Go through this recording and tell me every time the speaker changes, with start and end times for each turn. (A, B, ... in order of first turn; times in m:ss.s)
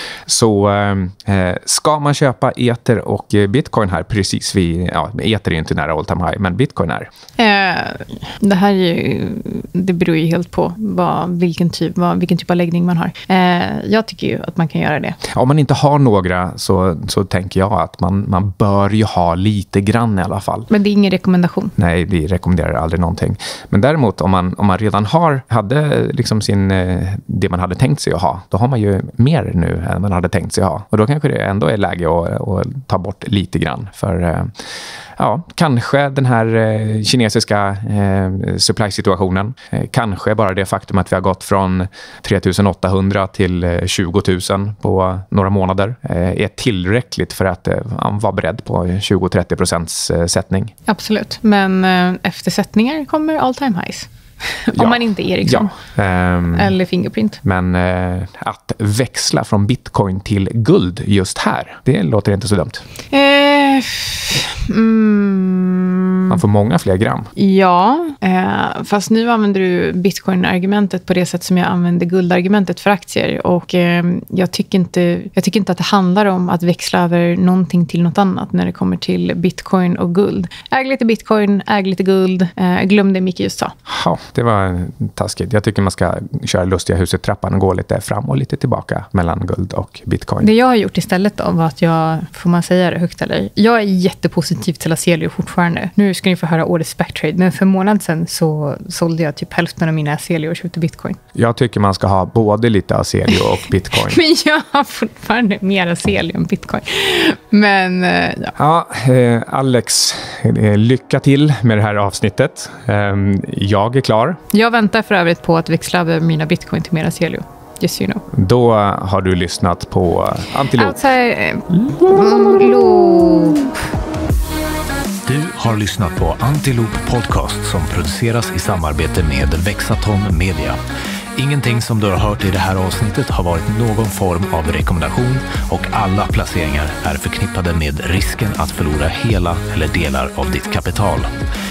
0:00.3-0:07.1 A
0:07.4-0:15.2 B
0:15.2-0:20.7 A
0:20.7-0:21.7 B
0:21.8-0:34.5 A
0:35.2-0:50.7 A
0:50.9-0:55.7 B
0:54.7-0:56.7 A
0:56.5-0:57.4 B
0:57.4-1:02.8 A
1:03.1-1:06.4 B
1:06.3-1:07.3 A
1:07.4-1:23.7 B
1:23.9-1:30.5 A
1:30.4-1:41.2 B
1:41.3-1:44.2 A
1:43.9-1:48.5 B
1:48.6-1:54.4 A
1:54.5-1:58.2 B
1:58.3-2:01.0 A
2:00.7-2:03.7 B
2:05.2-2:10.8 C
2:11.4-2:21.3 C